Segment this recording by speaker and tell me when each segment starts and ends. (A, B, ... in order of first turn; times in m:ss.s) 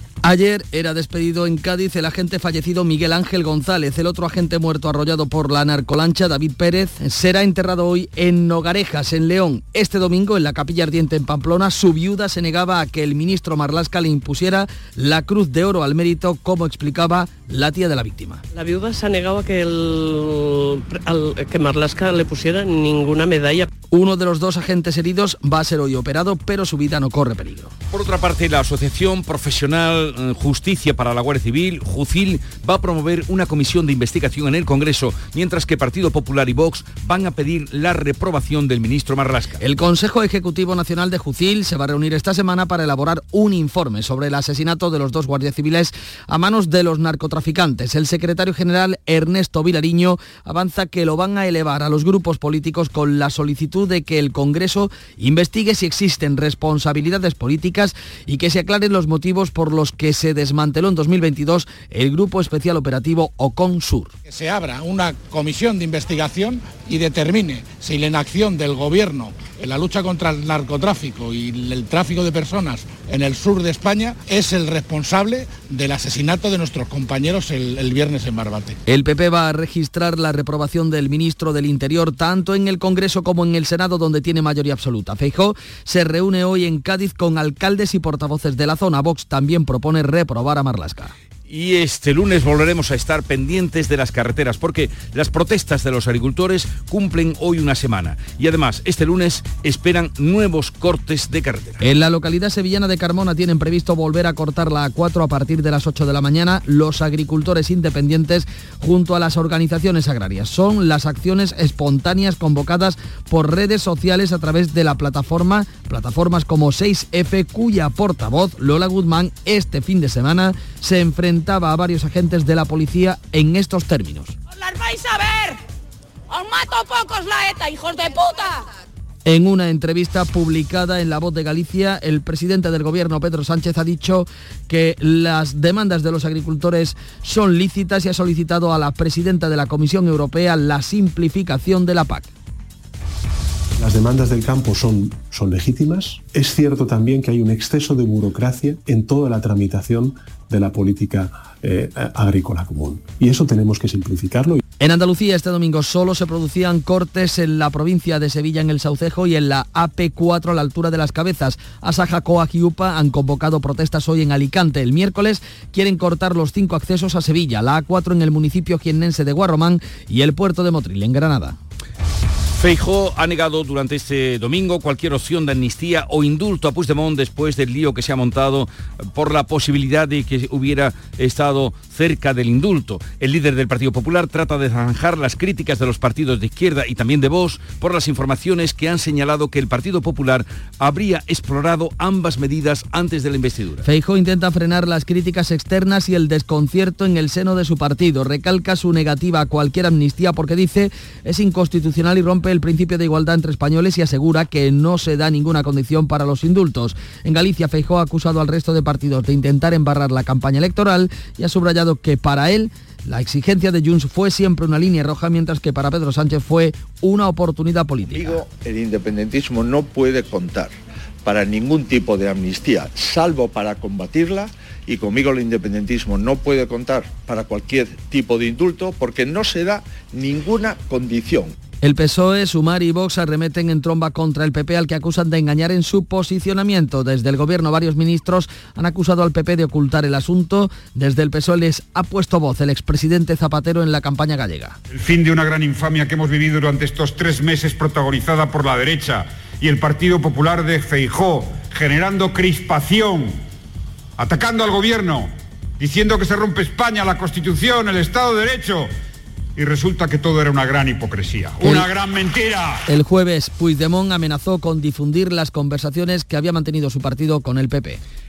0:00.2-0:18.4 A
0:18.5-0:23.7 B
0:23.9-0:27.7 A
0:27.9-0:39.6 C
0:39.6-1:04.1 A
1:04.2-1:18.8 D
1:18.9-1:31.1 A
1:31.5-1:41.8 C
1:41.8-2:04.3 A
2:04.5-2:05.6 E
2:06.3-2:08.6 E
2:09.2-2:22.3 A
2:23.8-2:34.6 F
2:34.8-2:51.6 A
2:52.5-3:13.8 C
3:13.8-3:38.4 A
3:38.1-3:51.5 G
3:51.8-4:04.8 A
4:04.9-4:13.4 H
4:14.2-4:18.9 H
4:19.6-4:22.8 H
4:21.6-4:21.9 A
4:22.9-4:28.0 A